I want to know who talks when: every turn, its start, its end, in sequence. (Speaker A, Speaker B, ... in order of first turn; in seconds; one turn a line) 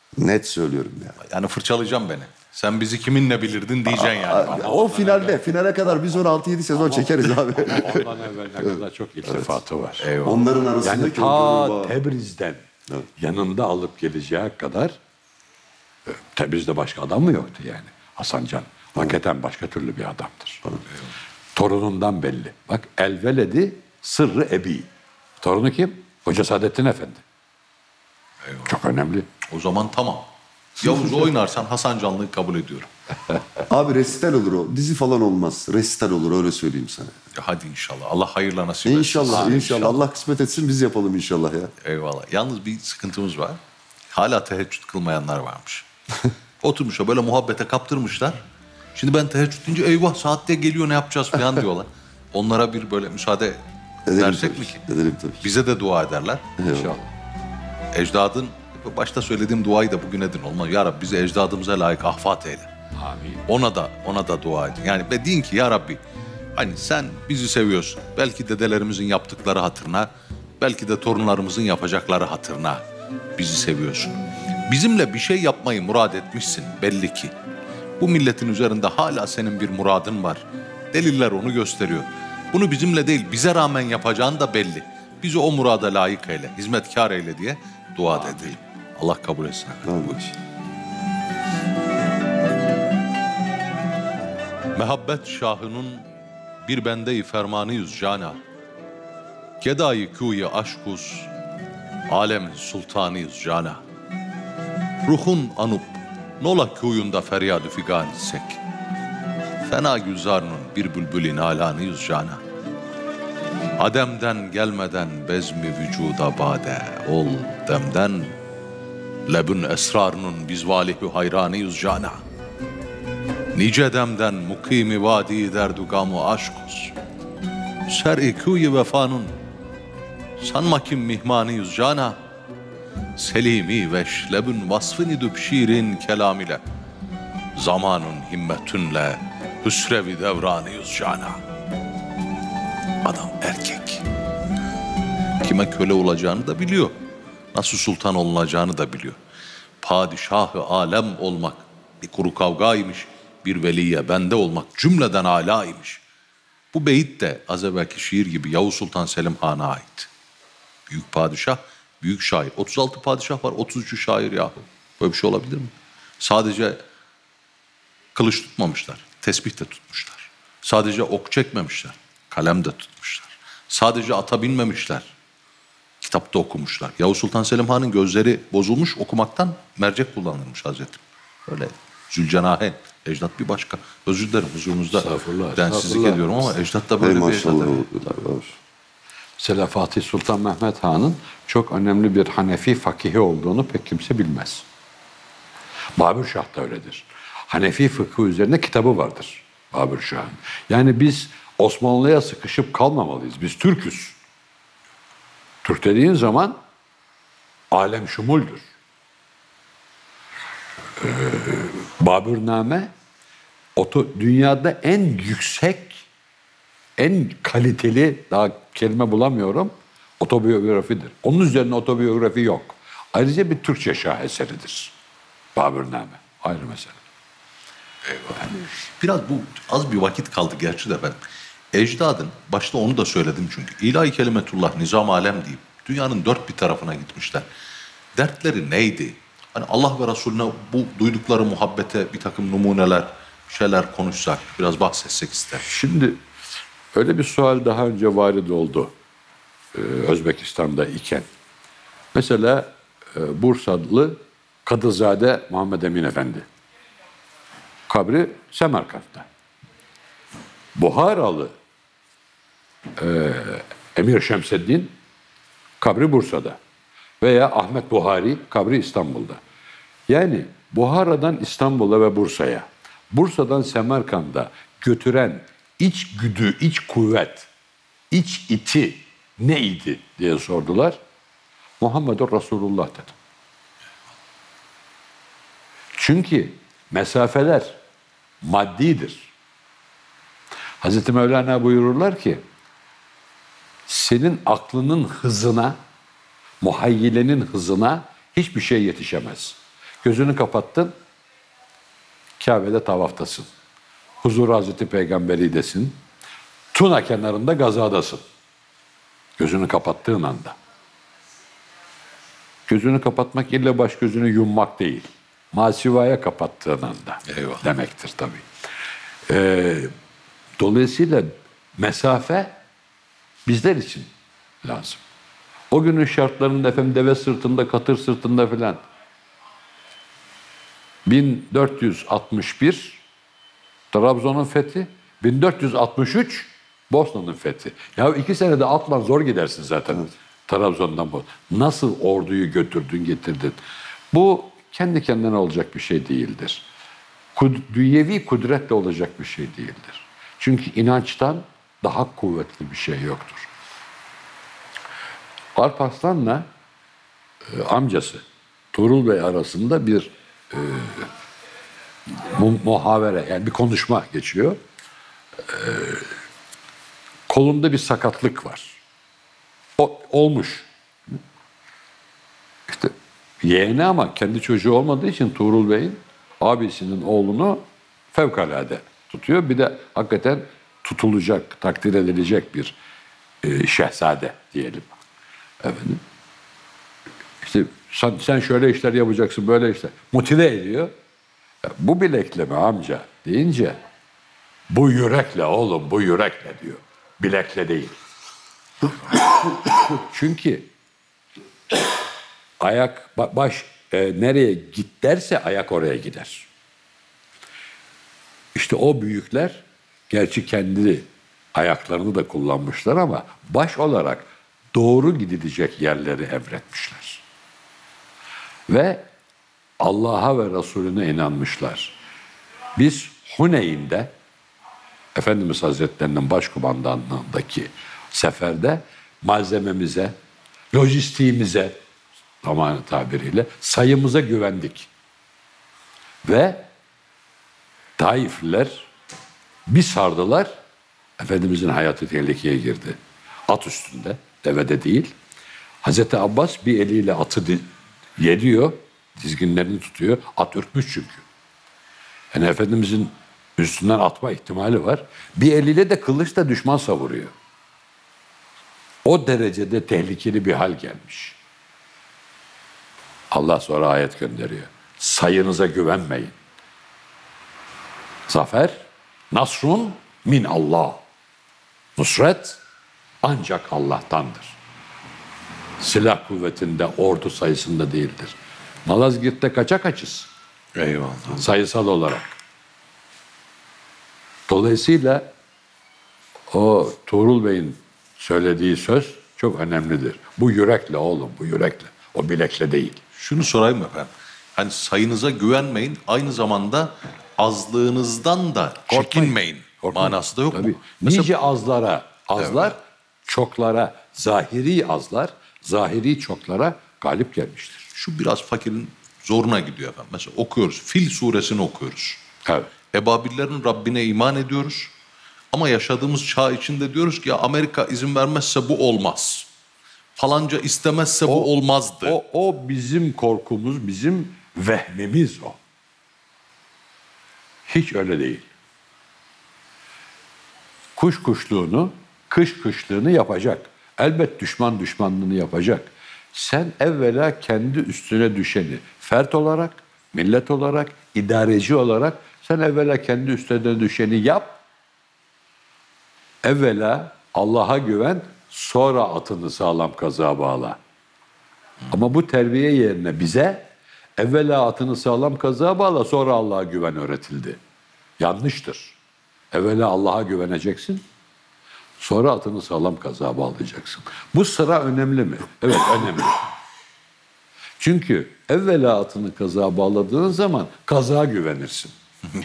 Speaker A: 0.2-1.2
Speaker B: 1.2-4.7
Speaker A: 3.9-8.1
Speaker C: 4.3-6.2
Speaker C: 6.7-10.1
Speaker B: 10.0-10.4
Speaker A: 10.2-11.9
Speaker C: 10.8-12.6
Speaker C: 13.2-15.0
Speaker C: 16.1-20.8
Speaker C: 21.6-24.9
Speaker C: 25.4-27.2
Speaker B: 28.4-28.7
Speaker C: 28.7-29.3
Speaker B: 29.5-30.3
Speaker B: 30.8-32.9
Speaker A: 30.8-31.2
Speaker A: 33.7-37.1
Speaker B: 37.3-40.0
Speaker A: 38.9-41.7
Speaker C: 39.3-39.6
Speaker B: 41.8-43.6
Speaker B: 44.1-45.9
Speaker B: 46.6-48.4
Speaker B: 49.0-54.8
Speaker A: 54.1-55.5
Speaker B: 55.4-56.5
Speaker A: 56.6-57.0
Speaker C: 56.7-57.1
Speaker B: 57.9-62.7
Speaker C: 63.0-63.4
Speaker B: 63.5-66.0
Speaker B: 66.6-70.1
Speaker B: 70.6-72.8
Speaker B: 73.4-77.3
Speaker B: 78.0-90.4
Speaker A: 89.8-90.2
Speaker B: 94.8-96.1
Speaker B: 96.6-98.4
Speaker B: 99.6-101.3
Speaker B: 102.1-103.8
Speaker B: 105.0-108.6
Speaker B: 109.7-112.4
Speaker B: 113.8-118.4
Speaker B: 119.3-122.2
Speaker B: 123.5-127.0
Speaker B: 127.9-129.4
Speaker B: 130.4-132.2
Speaker B: 133.2-136.6
Speaker B: 137.6-141.4
Speaker B: 143.0-144.1
Speaker B: 145.4-147.0
Speaker B: 147.5-149.2
Speaker B: 149.8-156.0
Speaker B: 156.7-160.1
Speaker B: 160.9-166.8
Speaker B: 168.2-175.1
Speaker B: 176.0-187.9
Speaker C: 184.9-186.2
Speaker A: 185.8-186.2
Speaker A: 187.0-188.5
Speaker C: 189.4-194.7
Speaker C: 196.0-204.2
Speaker C: 205.6-206.6
Speaker C: 207.7-208.7
Speaker C: 211.0-212.9
Speaker C: 213.8-216.1
Speaker C: 217.0-224.9
Speaker C: 225.6-227.0
Speaker B: 228.1-231.2
Speaker B: 231.7-237.5
Speaker B: 238.2-245.7
Speaker C: 245.6-246.2
Speaker C: 246.9-248.9
Speaker C: 249.7-251.3
Speaker C: 252.1-256.5
Speaker C: 257.9-259.3
Speaker C: 260.8-261.5
Speaker C: 263.0-264.9
Speaker C: 265.8-266.6
Speaker C: 267.2-269.4
Speaker C: 270.1-277.5
Speaker C: 278.1-281.0
Speaker C: 281.8-283.1
Speaker C: 286.0-287.8
Speaker C: 288.4-289.3
Speaker C: 290.8-292.4
Speaker C: 293.9-295.8
Speaker C: 296.6-300.9
Speaker C: 302.4-303.5
Speaker C: 304.2-306.0
Speaker C: 306.7-308.2
Speaker C: 309.4-310.6
Speaker C: 312.7-318.5
Speaker B: 317.3-317.6
Speaker C: 319.3-319.9
Speaker C: 320.6-322.6
Speaker C: 323.5-324.1
Speaker C: 324.6-325.0
Speaker C: 325.7-328.8
Speaker C: 331.1-333.0
Speaker C: 333.9-343.6
Speaker C: 344.1-346.6
Speaker C: 347.4-353.5
Speaker C: 355.6-356.5
Speaker C: 357.5-361.1
Speaker C: 362.1-364.6
Speaker C: 365.4-366.1
Speaker C: 367.3-368.8
Speaker C: 369.8-370.7
Speaker C: 372.7-382.8
Speaker C: 383.4-384.9
Speaker C: 385.6-386.0
Speaker C: 387.4-390.9
Speaker C: 391.6-393.8
Speaker C: 394.7-398.0
Speaker C: 399.9-400.7
Speaker C: 402.6-406.5
Speaker C: 408.6-417.2
Speaker C: 418.7-419.1
Speaker C: 419.8-421.9
Speaker C: 422.8-424.1
Speaker C: 425.1-430.1
Speaker C: 430.7-431.8
Speaker C: 432.4-434.9
Speaker C: 436.2-436.7
Speaker C: 438.0-438.9
Speaker C: 439.7-440.5
Speaker C: 441.2-445.1
Speaker C: 445.8-451.2
Speaker C: 452.3-457.3
Speaker C: 459.1-461.4
Speaker C: 463.3-466.4
Speaker C: 468.3-471.0
Speaker C: 472.0-472.6
Speaker C: 473.2-474.6
Speaker C: 475.8-478.4
Speaker C: 478.9-480.3
Speaker B: 480.8-481.4
Speaker C: 481.3-482.3
Speaker C: 484.5-485.3
Speaker C: 486.5-493.0
Speaker B: 493.2-501.3
Speaker C: 498.9-507.9
Speaker B: 502.4-502.7
Speaker B: 507.9-512.2
Speaker B: 512.9-514.9
Speaker B: 515.5-519.5
Speaker B: 520.2-522.2
Speaker C: 521.3-521.5
Speaker C: 522.0-525.6
Speaker C: 527.7-528.5
Speaker C: 531.0-544.6
Speaker C: 546.4-550.8
Speaker C: 551.9-553.7
Speaker C: 554.2-557.6
Speaker C: 558.2-559.0
Speaker C: 559.5-561.0
Speaker C: 562.0-566.4
Speaker C: 567.8-572.0